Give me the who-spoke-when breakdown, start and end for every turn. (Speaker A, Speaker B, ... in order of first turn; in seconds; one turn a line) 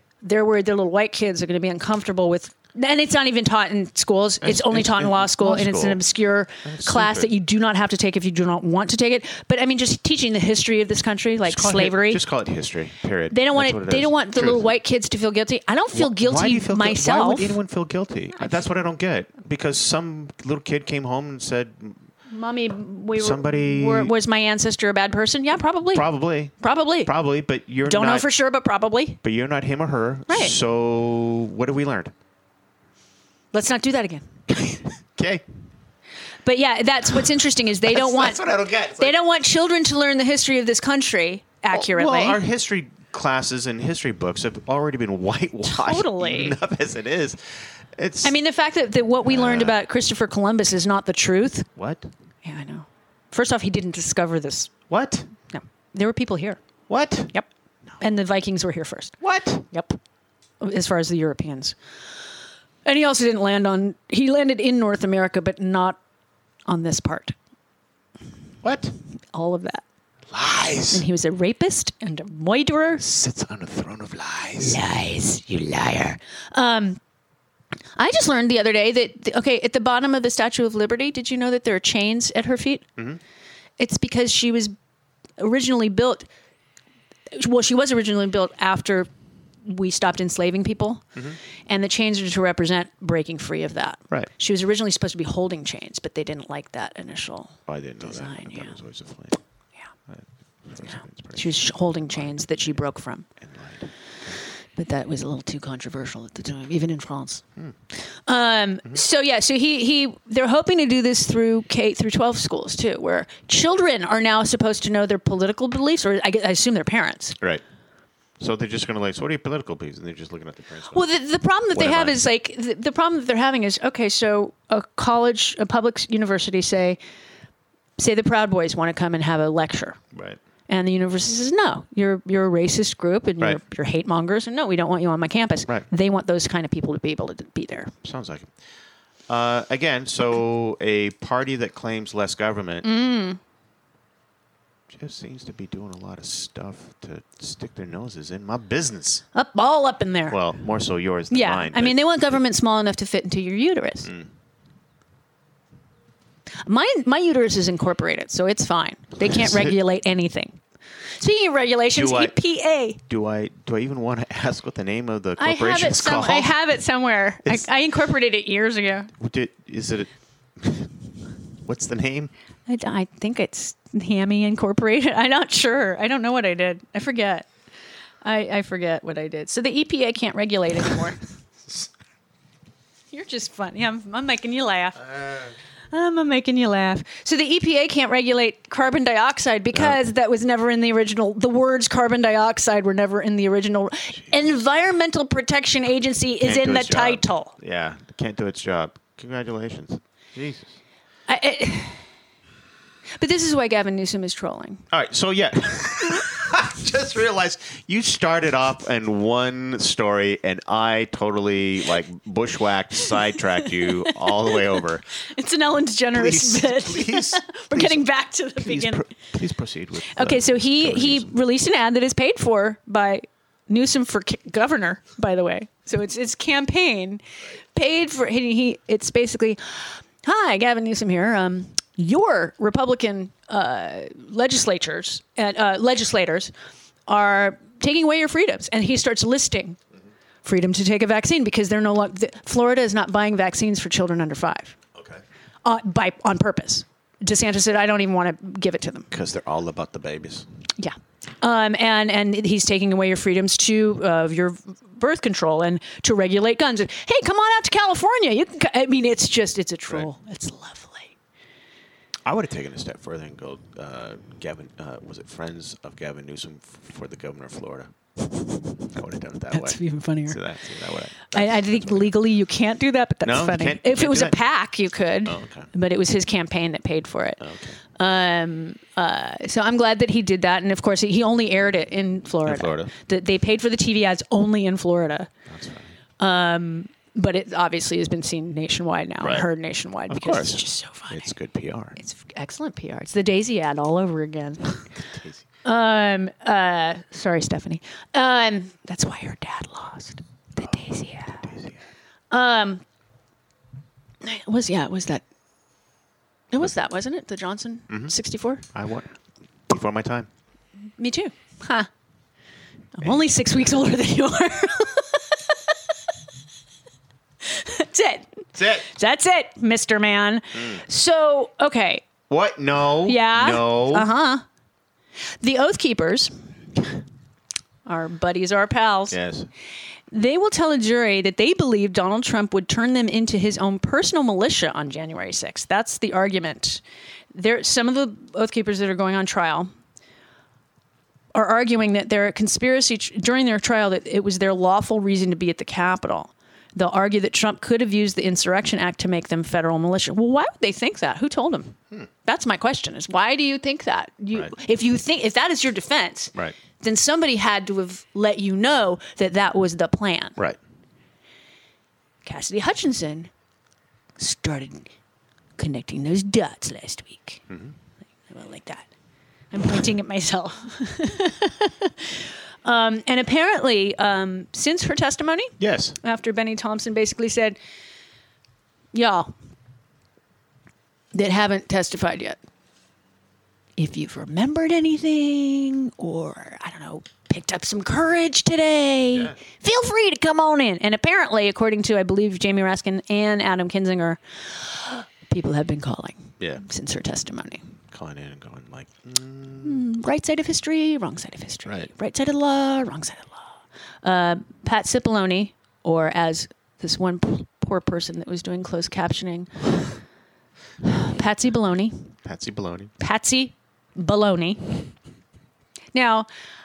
Speaker A: 0.2-12.2
Speaker B: 4.4-6.0
Speaker B: 6.6-7.3
Speaker B: 11.4-14.7
Speaker A: 13.3-17.6
Speaker B: 15.9-22.0
Speaker A: 22.3-27.1
Speaker B: 23.1-24.1
Speaker B: 25.9-26.5
Speaker B: 27.0-28.3
Speaker A: 27.9-29.2
Speaker B: 29.2-32.1
Speaker A: 30.3-30.5
Speaker A: 33.5-34.2
Speaker B: 34.5-35.4
Speaker A: 36.4-38.4
Speaker B: 37.9-39.2
Speaker A: 39.0-42.4
Speaker B: 41.7-48.4
Speaker A: 45.6-46.6
Speaker A: 48.2-51.7
Speaker B: 49.2-49.8
Speaker B: 51.8-52.1
Speaker A: 52.4-54.7
Speaker B: 54.9-55.3
Speaker A: 55.5-56.6
Speaker B: 56.9-57.3
Speaker A: 58.0-59.2
Speaker B: 59.2-59.6
Speaker A: 59.7-60.0
Speaker A: 60.6-61.8
Speaker A: 62.8-66.0
Speaker A: 66.7-67.3
Speaker B: 68.6-68.9
Speaker A: 69.3-69.8
Speaker B: 70.3-71.0
Speaker A: 70.9-73.0
Speaker B: 73.0-74.8
Speaker A: 74.6-77.0
Speaker A: 78.0-82.8
Speaker A: 83.8-84.7
Speaker A: 85.4-86.3
Speaker A: 87.3-89.1
Speaker A: 89.6-91.0
Speaker A: 91.7-98.8
Speaker B: 97.7-99.4
Speaker B: 100.1-102.8
Speaker A: 100.9-103.3
Speaker B: 103.4-104.4
Speaker A: 104.8-107.4
Speaker A: 108.3-117.4
Speaker B: 118.4-121.0
Speaker A: 120.9-127.0
Speaker B: 121.7-122.2
Speaker A: 128.0-130.0
Speaker B: 130.1-130.4
Speaker A: 130.7-137.9
Speaker B: 138.0-138.5
Speaker B: 139.3-142.9
Speaker A: 142.8-143.4
Speaker B: 144.9-149.2
Speaker A: 149.3-150.4
Speaker B: 150.3-152.0
Speaker A: 151.3-154.1
Speaker B: 154.0-154.3
Speaker A: 156.6-160.6
Speaker B: 159.3-159.7
Speaker A: 161.2-163.0
Speaker B: 161.9-162.4
Speaker B: 163.1-166.6
Speaker A: 165.4-169.1
Speaker B: 169.2-170.9
Speaker B: 171.6-172.3
Speaker A: 172.7-177.5
Speaker A: 178.2-181.2
Speaker A: 183.1-185.0
Speaker B: 185.1-185.5
Speaker A: 185.9-197.5
Speaker B: 189.7-190.0
Speaker B: 196.4-200.8
Speaker A: 201.3-202.0
Speaker A: 203.2-204.8
Speaker B: 204.9-215.1
Speaker A: 213.8-219.1
Speaker B: 216.1-218.0
Speaker B: 218.6-221.3
Speaker A: 220.1-227.2
Speaker A: 227.7-236.5
Speaker A: 237.1-239.8
Speaker A: 240.4-244.8
Speaker B: 244.9-245.2
Speaker A: 245.6-249.1
Speaker B: 249.1-250.4
Speaker A: 250.8-261.1
Speaker B: 262.2-267.9
Speaker A: 268.3-268.7
Speaker B: 268.9-272.1
Speaker A: 269.5-270.4
Speaker A: 271.3-277.4
Speaker B: 273.2-274.4
Speaker B: 275.2-275.7
Speaker B: 277.4-277.8
Speaker A: 277.9-285.3
Speaker B: 282.4-282.9
Speaker B: 285.5-285.9
Speaker A: 286.2-291.3
Speaker B: 289.2-289.5
Speaker B: 290.1-292.0
Speaker A: 292.0-294.8
Speaker B: 294.9-295.4
Speaker A: 295.6-301.4
Speaker B: 301.3-301.8
Speaker A: 302.3-302.8
Speaker A: 304.2-305.2
Speaker A: 306.5-308.6
Speaker B: 308.7-309.1
Speaker B: 309.7-310.3
Speaker A: 311.0-311.9
Speaker A: 312.9-315.6
Speaker B: 313.0-313.3
Speaker A: 317.4-322.1
Speaker B: 318.5-318.9
Speaker B: 320.5-320.8
Speaker B: 322.3-324.1
Speaker A: 323.1-324.4
Speaker A: 325.4-326.3
Speaker A: 327.9-329.2
Speaker B: 329.1-329.5
Speaker A: 330.1-336.8
Speaker A: 337.3-339.7
Speaker A: 341.3-360.4
Speaker A: 362.2-363.3
Speaker A: 364.2-364.9
Speaker A: 365.6-367.4
Speaker B: 367.5-367.7
Speaker A: 368.3-368.9
Speaker A: 369.5-377.6
Speaker B: 375.6-376.0
Speaker A: 378.9-379.3
Speaker A: 381.1-382.4
Speaker A: 383.8-397.6
Speaker B: 389.1-389.4
Speaker B: 397.9-399.8
Speaker A: 399.6-403.5
Speaker A: 404.0-409.8
Speaker A: 410.8-412.1
Speaker B: 412.2-412.9
Speaker A: 413.0-414.9
Speaker A: 415.9-416.3